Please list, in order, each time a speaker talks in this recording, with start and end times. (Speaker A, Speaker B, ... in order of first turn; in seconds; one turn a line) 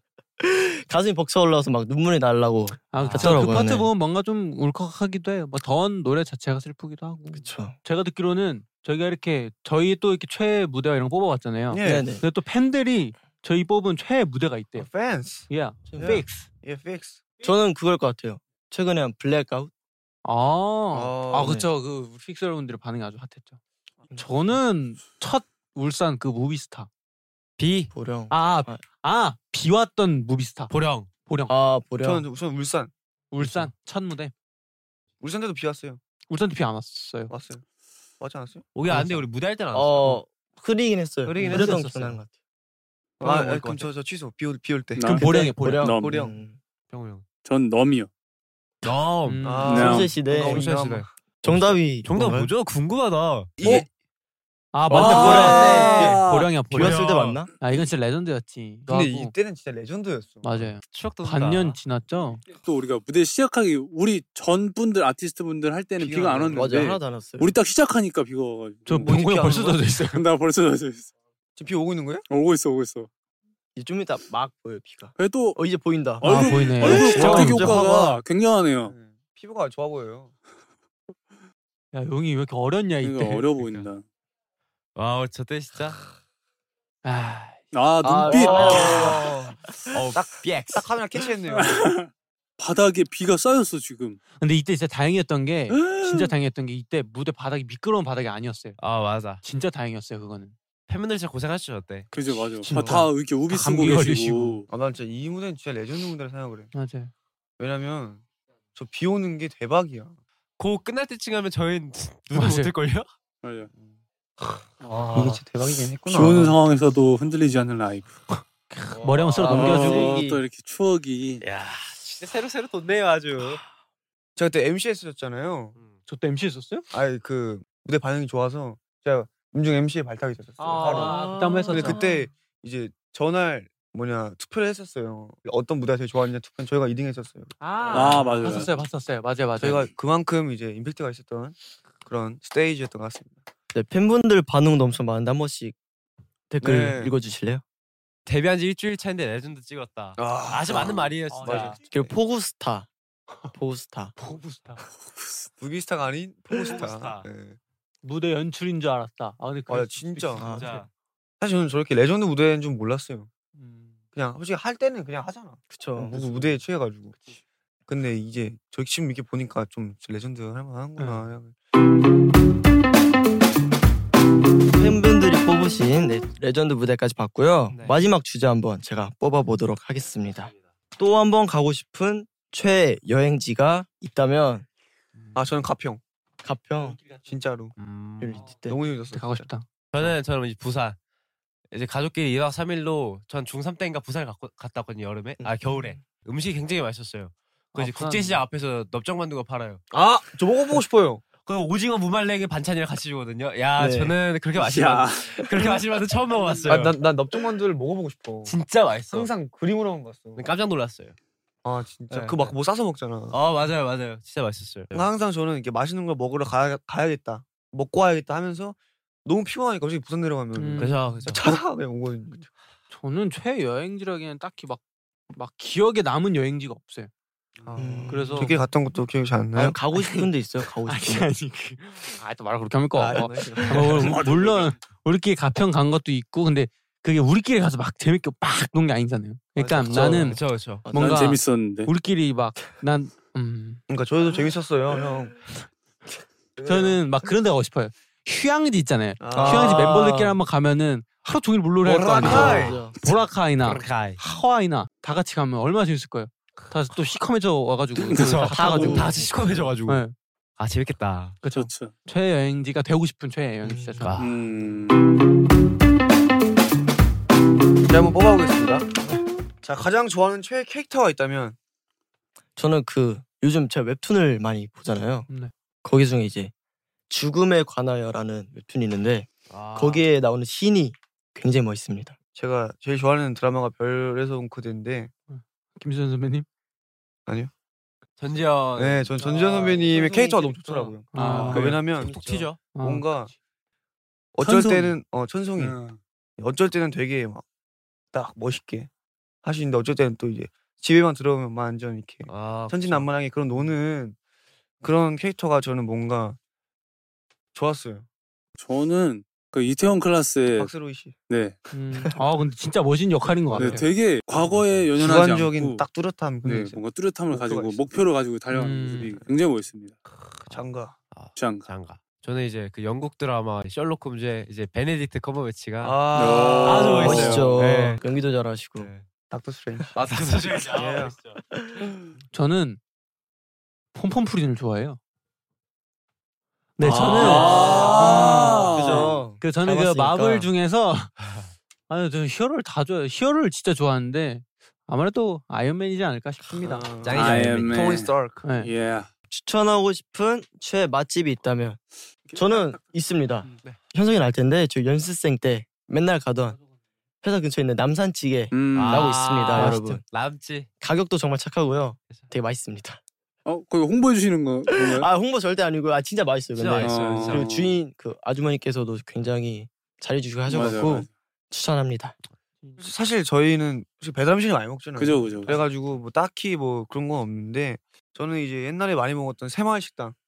Speaker A: 0.4-3.9
Speaker B: 2.9-14.9
Speaker A: 7.3-7.8
Speaker C: 11.7-12.1
Speaker A: 11.8-12.2
Speaker C: 14.8-17.2
Speaker B: 15.5-16.4
Speaker A: 15.9-16.2
Speaker A: 17.4-19.7
Speaker B: 20.2-23.6
Speaker C: 20.9-21.6
Speaker A: 21.4-21.7
Speaker A: 24.1-24.6
Speaker B: 24.1-26.9
Speaker D: 27.6-27.9
Speaker A: 27.9-28.8
Speaker B: 28.3-30.7
Speaker D: 30.7-31.1
Speaker B: 31.3-31.5
Speaker A: 31.5-32.3
Speaker C: 32.0-32.9
Speaker B: 33.3-34.3
Speaker A: 33.4-33.7
Speaker C: 35.2-36.0
Speaker B: 36.3-37.3
Speaker C: 37.3-37.6
Speaker C: 38.2-38.7
Speaker D: 38.8-40.2
Speaker B: 38.9-39.2
Speaker A: 39.7-42.3
Speaker D: 41.3-41.8
Speaker B: 41.4-42.2
Speaker C: 43.2-45.1
Speaker D: 43.2-43.9
Speaker E: 45.0-45.3
Speaker B: 45.1-46.0
Speaker A: 45.1-46.6
Speaker E: 45.8-46.1
Speaker C: 45.9-46.4
Speaker D: 46.9-47.3
Speaker E: 47.4-48.1
Speaker D: 48.8-49.6
Speaker B: 49.2-49.9
Speaker C: 49.4-51.1
Speaker E: 49.6-50.5
Speaker A: 49.7-50.7
Speaker D: 50.5-53.7
Speaker A: 51.4-52.5
Speaker C: 53.6-53.9
Speaker B: 54.7-57.0
Speaker A: 54.9-56.2
Speaker E: 54.9-56.5
Speaker C: 55.1-56.2
Speaker D: 55.4-55.8
Speaker A: 56.7-57.5
Speaker D: 56.8-57.4
Speaker B: 57.6-59.3
Speaker C: 58.9-60.7
Speaker B: 60.4-62.4
Speaker D: 60.8-61.8
Speaker E: 62.5-71.1
Speaker C: 66.0-66.8
Speaker A: 66.5-67.6
Speaker B: 68.9-70.2
Speaker C: 69.0-69.6
Speaker C: 71.6-72.2
Speaker E: 72.3-73.1
Speaker A: 73.8-77.9
Speaker E: 75.2-75.6
Speaker E: 76.2-78.9
Speaker B: 76.2-77.8
Speaker C: 77.0-78.2
Speaker C: 78.8-80.3
Speaker B: 81.9-83.8
Speaker E: 83.0-84.0
Speaker D: 85.0-86.0
Speaker B: 87.0-87.6
Speaker E: 87.7-89.2
Speaker A: 88.0-89.3
Speaker C: 88.1-91.9
Speaker D: 89.9-90.8
Speaker E: 91.6-94.2
Speaker B: 94.4-98.8
Speaker E: 95.7-96.3
Speaker D: 98.8-99.4
Speaker B: 99.4-100.5
Speaker D: 100.9-102.5
Speaker E: 102.1-104.7
Speaker B: 102.6-104.6
Speaker C: 104.7-106.7
Speaker B: 106.7-107.1
Speaker C: 107.6-108.2
Speaker C: 108.8-110.2
Speaker D: 110.6-113.1
Speaker B: 112.3-112.7
Speaker E: 113.4-113.7
Speaker D: 115.0-115.4
Speaker C: 115.1-116.6
Speaker E: 116.1-118.1
Speaker B: 118.4-120.2
Speaker D: 118.9-119.7
Speaker A: 119.4-120.4
Speaker E: 119.5-121.4
Speaker D: 121.4-123.6
Speaker C: 124.4-125.8
Speaker B: 126.1-126.9
Speaker C: 126.9-138.4
Speaker B: 130.6-132.0
Speaker A: 131.1-132.0
Speaker D: 131.5-131.9
Speaker B: 137.6-139.9
Speaker E: 137.9-138.7
Speaker C: 139.6-143.4
Speaker A: 143.7-145.8
Speaker A: 146.5-147.6
Speaker C: 146.6-147.2
Speaker D: 148.3-151.8
Speaker C: 150.2-152.1
Speaker B: 151.3-151.8
Speaker A: 151.9-152.9
Speaker A: 153.5-154.1
Speaker B: 154.2-154.8
Speaker C: 155.6-157.6
Speaker D: 156.7-157.3
Speaker B: 158.0-160.9
Speaker C: 159.7-160.5
Speaker A: 160.4-160.7
Speaker D: 160.5-160.9
Speaker C: 161.4-163.3
Speaker B: 163.6-163.9
Speaker C: 164.1-167.2
Speaker A: 165.7-166.2
Speaker C: 167.9-171.5
Speaker B: 171.0-171.3
Speaker A: 174.8-184.7
Speaker D: 177.7-178.0
Speaker C: 185.3-186.0
Speaker A: 186.4-187.0
Speaker C: 187.2-187.7
Speaker D: 187.8-188.5
Speaker A: 188.2-188.8
Speaker C: 188.7-189.5
Speaker B: 189.1-189.7
Speaker D: 189.9-191.0
Speaker D: 191.7-199.8
Speaker A: 195.4-196.0
Speaker B: 197.8-198.4
Speaker C: 199.9-201.2
Speaker D: 201.5-207.0
Speaker A: 203.8-204.2
Speaker E: 204.6-205.2
Speaker C: 206.5-208.6
Speaker D: 208.4-209.3
Speaker C: 209.1-210.4
Speaker D: 210.4-211.2
Speaker C: 211.6-213.4
Speaker D: 212.1-212.6
Speaker D: 213.3-215.1
Speaker C: 214.9-222.5
Speaker B: 220.6-221.2
Speaker D: 220.8-221.4
Speaker B: 222.9-227.1
Speaker C: 227.6-229.8
Speaker A: 227.7-228.6
Speaker B: 228.1-228.6
Speaker A: 229.6-231.3
Speaker B: 229.9-243.8
Speaker E: 233.7-234.8
Speaker C: 239.6-240.4
Speaker D: 239.9-240.9
Speaker A: 239.9-240.3
Speaker A: 240.9-241.2
Speaker E: 240.9-241.9
Speaker C: 243.9-245.4
Speaker C: 246.6-247.0
Speaker B: 246.7-259.1
Speaker C: 249.2-249.9
Speaker A: 249.3-250.4
Speaker D: 252.0-252.9
Speaker A: 252.2-252.9
Speaker C: 252.3-252.7
Speaker D: 253.6-254.2
Speaker E: 258.1-258.4
Speaker D: 258.2-260.0
Speaker A: 258.2-259.8
Speaker B: 259.9-260.1
Speaker D: 260.6-261.4
Speaker B: 261.4-264.2
Speaker E: 261.4-261.9
Speaker A: 263.6-264.1
Speaker D: 264.0-264.3
Speaker E: 264.2-265.0
Speaker C: 267.9-268.9
Speaker C: 269.6-271.6
Speaker A: 272.6-275.3
Speaker A: 275.8-276.5
Speaker A: 277.1-282.2
Speaker D: 279.5-280.1
Speaker C: 282.4-285.1
Speaker B: 285.3-286.5
Speaker D: 288.2-290.2
Speaker C: 288.8-293.3
Speaker B: 291.1-291.7
Speaker E: 291.1-291.9
Speaker D: 291.9-292.7
Speaker B: 292.7-293.3
Speaker C: 294.4-295.8
Speaker E: 294.4-295.0
Speaker E: 295.6-296.0
Speaker C: 296.4-297.4
Speaker C: 298.1-298.9
Speaker C: 299.4-304.2
Speaker D: 302.3-303.1
Speaker C: 304.8-306.4
Speaker C: 307.5-308.1
Speaker E: 308.6-310.7
Speaker C: 310.5-311.1
Speaker E: 311.3-311.6
Speaker B: 311.7-313.9
Speaker E: 313.5-315.9
Speaker D: 314.4-314.8
Speaker C: 315.0-317.9
Speaker E: 316.4-319.9
Speaker B: 318.5-319.2
Speaker D: 320.4-328.1
Speaker C: 320.5-321.0
Speaker E: 321.4-321.7
Speaker C: 325.8-327.3
Speaker E: 326.1-327.4
Speaker A: 326.9-328.9
Speaker D: 328.8-329.1
Speaker C: 329.3-331.2
Speaker D: 329.9-331.4
Speaker A: 331.6-331.9
Speaker B: 332.3-332.8
Speaker B: 333.9-335.0
Speaker B: 336.8-338.8
Speaker A: 336.8-340.5
Speaker E: 337.1-339.2
Speaker C: 337.2-339.1
Speaker B: 339.4-341.1
Speaker D: 341.2-341.5
Speaker B: 341.9-346.9
Speaker C: 346.5-348.4
Speaker D: 347.0-348.1
Speaker E: 347.1-349.1
Speaker B: 348.4-348.7
Speaker A: 349.3-351.8
Speaker E: 352.3-352.7
Speaker A: 352.4-356.6
Speaker A: 357.2-360.0
Speaker E: 358.5-359.8
Speaker D: 358.8-360.7
Speaker A: 360.8-363.0
Speaker E: 363.5-365.1
Speaker A: 364.7-372.2
Speaker D: 366.6-367.7
Speaker E: 366.8-367.8
Speaker E: 370.5-371.1
Speaker C: 372.8-380.1
Speaker E: 375.0-375.6